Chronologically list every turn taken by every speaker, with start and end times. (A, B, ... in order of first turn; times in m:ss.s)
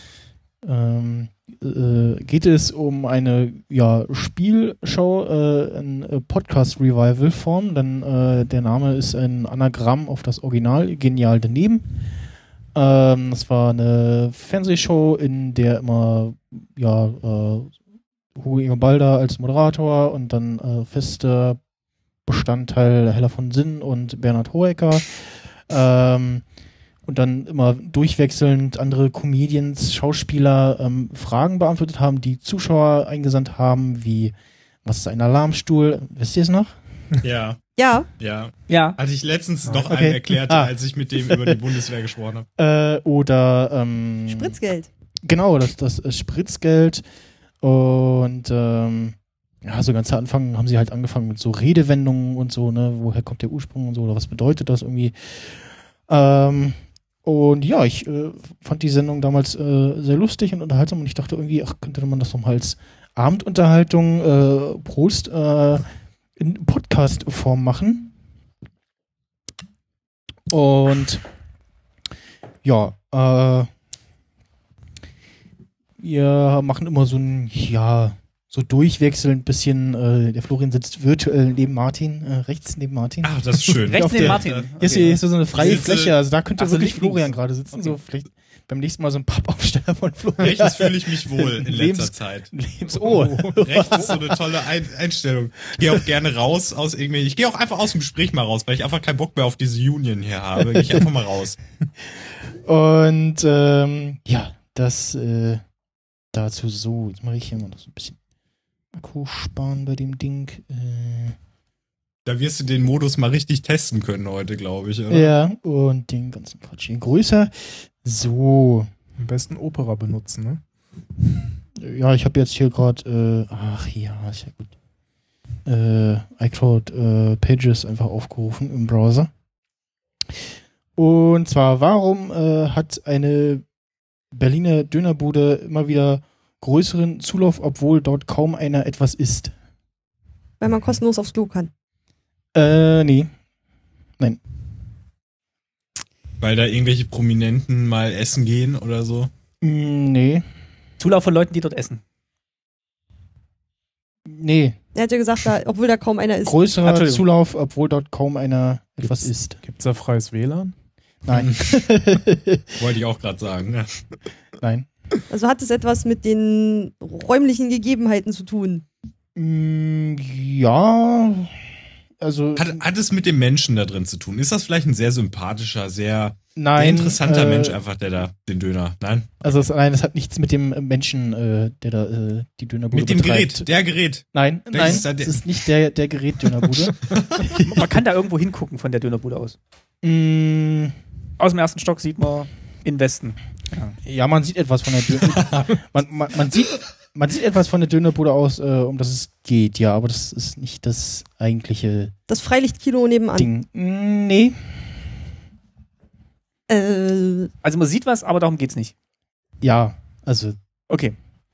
0:00.6-0:11.9 A
0:12.7-0:17.7 A
0:18.3-0:21.6 A
0:22.2-0:26.4 A
0:27.1-0:34.3 A
0:34.8-0:36.7 A
0:37.2-0:37.6 B
0:37.8-0:38.1 C
0:38.2-0:42.4 B
0:38.7-0:39.0 D
0:39.8-0:40.7 A
0:41.2-0:41.6 A
0:42.6-0:44.6 A
0:44.3-0:44.9 C
0:45.2-0:47.0 A
0:47.6-1:05.8 A
1:06.4-1:08.1 A
1:10.5-1:11.2 A
1:12.6-1:13.7 A
1:16.0-1:23.4 A
1:23.2-1:24.7 B
1:23.9-1:34.4 A
1:23.9-1:25.7 D
1:25.5-1:26.2 B
1:26.6-1:28.0 D
1:30.4-1:32.5 B
1:32.9-1:33.6 E
1:33.6-1:41.6 B
1:40.6-1:41.0 A
1:42.6-1:45.6 A
1:46.3-1:48.2 A
1:48.9-1:51.4 A
1:52.2-1:55.3 B
1:55.1-1:58.9 A
1:59.2-2:00.6 E
2:01.8-2:04.7 A
2:05.6-2:09.3 A
2:11.0-2:13.6 A
2:14.3-2:19.5 A
2:20.6-2:21.7 C
2:22.5-2:23.3 A
2:26.4-2:29.3 B
2:29.6-2:30.4 A
2:31.0-2:32.0 D
2:34.2-2:34.8 A
2:34.9-2:36.6 C
2:36.4-2:39.6 A
2:36.8-2:37.2 D
2:39.6-2:40.7 E
2:41.2-2:42.7 A
2:41.3-2:41.6 B
2:42.8-2:44.0 B
2:44.6-2:44.9 A
2:45.3-2:48.8 C
2:49.4-2:51.6 A
2:52.2-2:52.8 A
2:52.6-2:59.3 B
2:56.6-2:57.8 A
2:59.4-3:03.7 A
3:02.9-3:05.5 B
3:04.3-3:07.0 A
3:07.1-3:07.6 B
3:07.6-3:09.6 D
3:10.0-3:10.9 A
3:11.4-3:13.9 D
3:14.0-3:22.1 A
3:15.2-3:15.7 B
3:22.3-3:23.5 C
3:23.3-3:24.6 A
3:26.7-3:27.5 C
3:27.6-3:28.9 D
3:29.6-3:30.6 A
3:30.9-3:31.2 D